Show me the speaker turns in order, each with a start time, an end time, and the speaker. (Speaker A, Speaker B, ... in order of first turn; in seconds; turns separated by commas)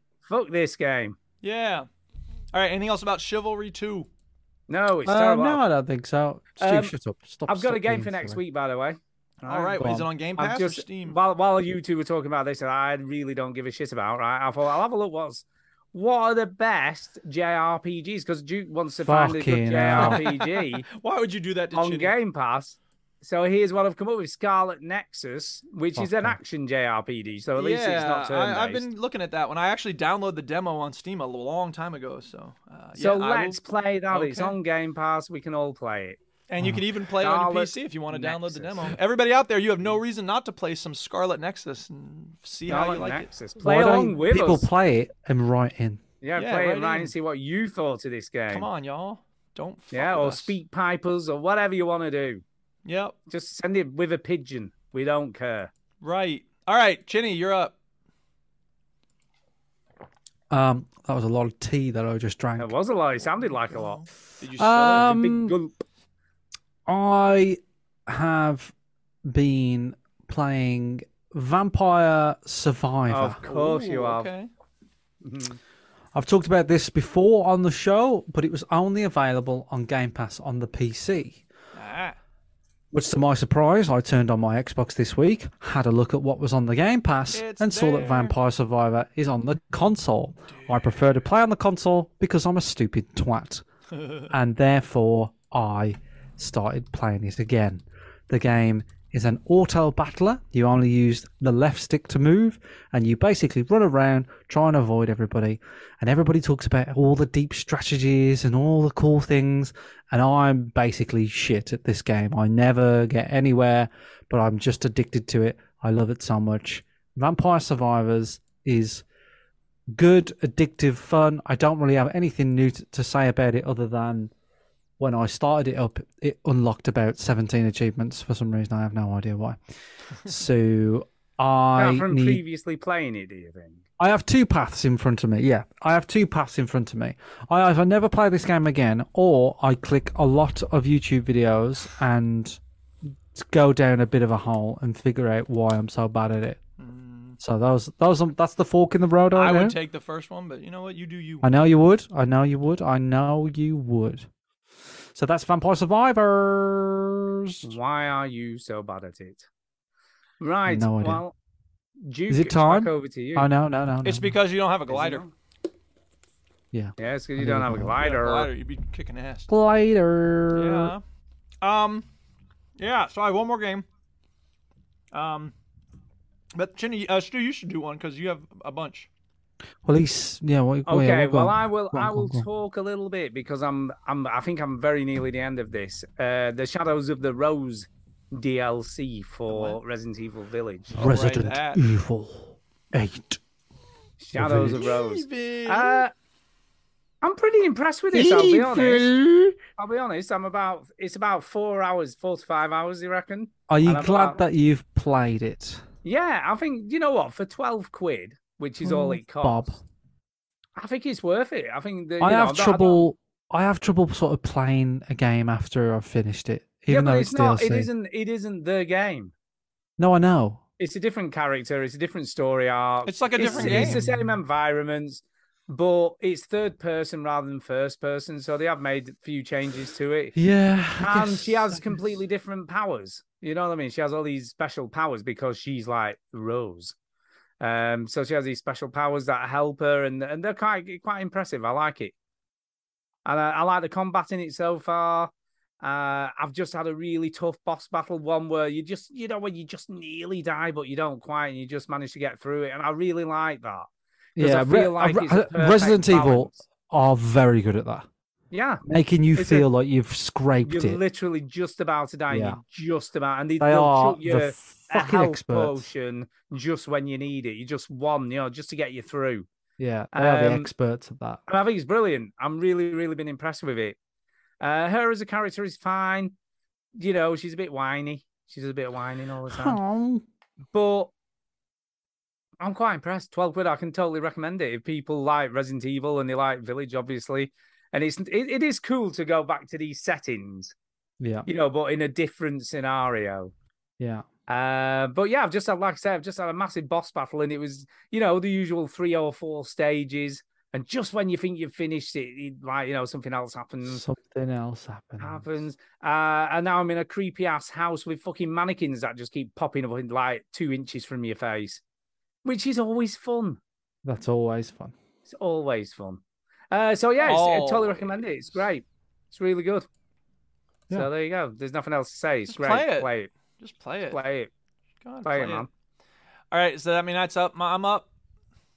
Speaker A: 0.3-1.2, Speaker B: 1.4-1.9, Speaker B: 2.5-4.1, Speaker A: 4.7-5.6, Speaker C: 5.0-8.4, Speaker A: 6.6-6.9, Speaker A: 7.5-20.9, Speaker B: 9.4-11.2, Speaker C: 9.8-10.1, Speaker C: 19.0-20.2, Speaker B: 20.0-22.1, Speaker A: 21.7-28.9, Speaker C: 25.9-26.4, Speaker B: 27.6-34.5, Speaker A: 33.0-36.2, Speaker B: 36.5-43.3, Speaker A: 37.2-39.0, Speaker A: 42.7-44.7, Speaker C: 43.6-46.0, Speaker A: 46.2-48.7, Speaker B: 46.4-47.1, Speaker B: 48.5-50.5, Speaker A: 49.9-52.4, Speaker B: 52.9-53.1, Speaker A: 53.3-55.7, Speaker B: 56.0-57.7, Speaker C: 60.5-62.8, Speaker A: 62.6-64.0, Speaker B: 64.4-65.2, Speaker C: 64.6-65.5, Speaker A: 65.0-65.7, Speaker C: 66.9-68.7, Speaker C: 69.3-73.4, Speaker A: 73.1-74.3, Speaker B: 73.4-74.5, Speaker A: 75.2-75.6, Speaker C: 76.1-81.4, Speaker B: 81.7-82.2, Speaker C: 82.9-93.6, Speaker B: 87.3-88.3, Speaker B: 90.5-91.1, Speaker B: 93.9-94.3, Speaker C: 94.3-119.0, Speaker C: 119.9-124.3, Speaker C: 125.0-129.6, Speaker C: 130.2-132.4, Speaker A: 131.8-133.8, Speaker C: 134.0-142.6, Speaker C: 143.3-146.6, Speaker B: 146.8-147.4, Speaker C: 147.4-149.8, Speaker B: 149.3-151.5, Speaker C: 151.4-154.3, Speaker C: 155.2-157.7, Speaker A: 157.6-159.5, Speaker A: 160.4-161.3, Speaker C: 160.7-161.2, Speaker A: 162.0-163.5, Speaker C: 162.3-164.4, Speaker B: 164.0-165.2, Speaker A: 164.9-165.3, Speaker C: 166.7-168.0, Speaker A: 167.0-168.5, Speaker B: 168.0-169.5, Speaker C: 169.5-170.9, Speaker B: 170.5-171.0, Speaker B: 171.6-172.1, Speaker B: 172.8-173.9, Speaker B: 175.1-175.5, Speaker B: 176.5-179.1, Speaker C: 179.8-182.5, Speaker A: 180.9-191.0, Speaker B: 189.5-189.8, Speaker C: 190.9-193.4, Speaker B: 191.0-191.8, Speaker A: 194.2-196.1, Speaker C: 194.3-194.9, Speaker B: 194.8-196.0, Speaker A: 197.2-199.1, Speaker C: 198.1-199.6, Speaker A: 199.8-204.4, Speaker C: 203.7-205.8, Speaker A: 206.0-209.7, Speaker C: 208.8-209.8, Speaker A: 210.8-213.1, Speaker C: 212.2-217.9, Speaker A: 216.9-219.3, Speaker C: 220.0-220.6, Speaker A: 220.8-230.4, Speaker B: 223.1-224.0, Speaker C: 223.4-224.3, Speaker C: 230.4-232.0, Speaker A: 231.0-236.9, Speaker A: 237.6-242.1, Speaker A: 243.2-245.3, Speaker A: 245.8-253.9, Speaker C: 254.4-258.1, Speaker A: 254.4-256.6, Speaker A: 258.5-258.8, Speaker C: 258.9-261.0, Speaker A: 259.4-259.7, Speaker A: 260.6-269.5, Speaker C: 262.3-262.6, Speaker C: 263.6-265.9, Speaker C: 269.8-271.4, Speaker A: 270.1-270.7, Speaker A: 271.5-274.0, Speaker A: 274.6-276.3, Speaker A: 277.0-279.8, Speaker C: 279.5-280.2, Speaker A: 280.7-281.1, Speaker A: 282.6-290.7, Speaker C: 291.2-291.5, Speaker A: 291.5-293.5, Speaker C: 294.0-294.2, Speaker A: 294.5-304.0, Speaker C: 303.8-305.4, Speaker A: 305.2-311.8, Speaker A: 312.4-313.6, Speaker C: 314.1-314.9, Speaker A: 315.3-319.9, Speaker B: 317.2-318.2, Speaker A: 320.9-323.3, Speaker B: 322.5-324.2, Speaker A: 324.1-324.5, Speaker B: 325.0-325.7, Speaker A: 325.2-325.7, Speaker B: 326.5-328.1